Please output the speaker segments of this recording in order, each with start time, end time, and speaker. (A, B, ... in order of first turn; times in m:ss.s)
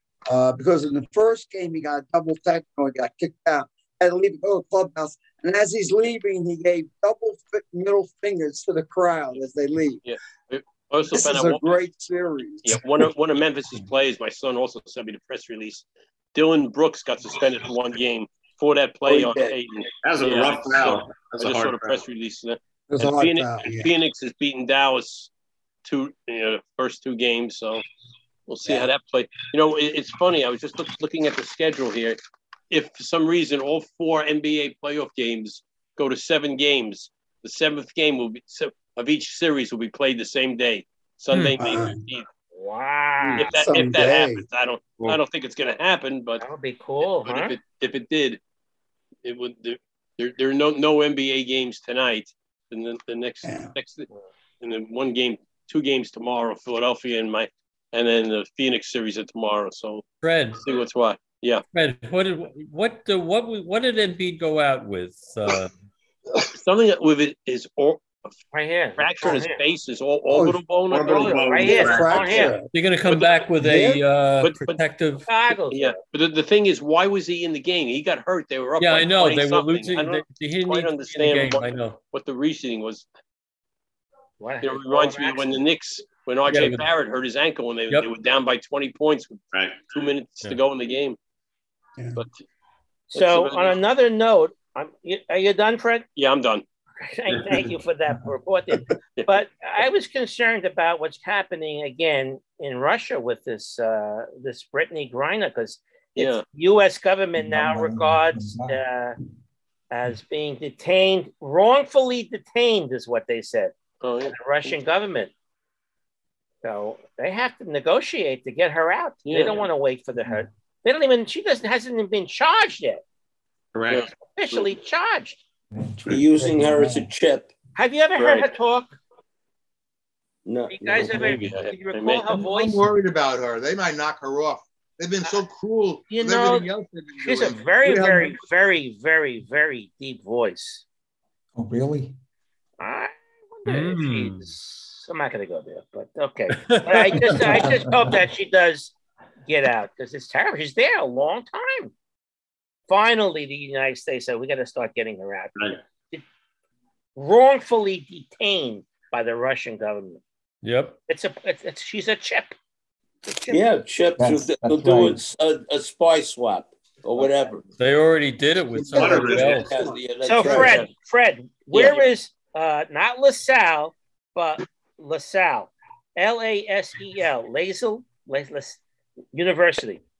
0:00.3-0:10.0 A
0:10.0-0:11.7 B
0:11.1-0:12.9 A
0:12.6-0:25.3 B
0:20.0-0:22.0 C
0:22.9-0:23.9 A
0:25.8-0:27.8 B
0:28.5-0:32.2 B
0:32.7-0:42.2 B
0:41.6-0:42.0 A
0:42.5-0:43.5 D
0:43.3-0:46.4 B
0:43.4-0:44.4 A
0:46.4-0:47.6 D
0:47.2-0:48.4 B
0:49.2-0:54.1 B
0:53.4-0:53.7 A
0:54.6-1:00.0 B
1:00.2-1:00.6 E
1:00.6-1:01.6 B
1:01.7-1:05.7 E
1:06.5-1:08.3 B
1:08.5-1:09.6 D
1:09.0-1:12.5 B
1:10.3-1:10.6 A
1:10.9-1:12.5 C
1:11.0-1:12.5 D
1:11.6-1:12.7 A
1:12.7-1:15.2 E
1:13.6-1:14.0 A
1:14.4-1:14.8 B
1:15.2-1:16.0 D
1:15.7-1:23.1 B
1:18.8-1:22.0 E
1:24.4-1:25.6 D
1:24.6-1:31.2 B
1:26.5-1:26.9 E
1:29.5-1:29.8 C
1:32.1-1:32.4 B
1:33.1-1:36.0 D
1:33.1-1:33.8 B
1:36.2-1:36.6 B
1:37.0-1:49.2 D
1:46.2-1:46.4 B
1:47.4-1:48.8 F
1:49.9-1:53.7 D
1:54.0-1:54.7 B
1:54.3-1:55.3 D
1:56.6-2:03.0 D
1:59.2-1:59.6 B
2:03.7-2:04.0 C
2:04.3-2:05.4 D
2:05.7-2:07.1 F
2:06.1-2:07.5 G
2:07.8-2:09.0 D
2:08.2-2:08.5 B
2:10.4-2:11.2 G
2:10.7-2:12.8 D
2:11.0-2:12.3 B
2:12.3-2:18.4 H
2:16.1-2:20.8 D
2:21.5-2:22.2 F
2:22.8-2:28.9 D
2:23.6-2:24.5 E
2:26.5-2:27.8 E
2:29.4-2:31.9 D
2:32.9-2:36.2 D
2:37.2-2:40.2 D
2:40.6-2:41.0 E
2:41.1-2:42.5 D
2:43.5-2:47.6 G
2:44.2-2:45.2 F
2:47.8-2:49.8 E
2:48.9-2:49.8 C
2:49.0-2:50.8 G
2:50.2-2:58.8 D
2:50.5-2:50.9 B
2:51.7-2:52.0 B
2:59.3-3:00.0 D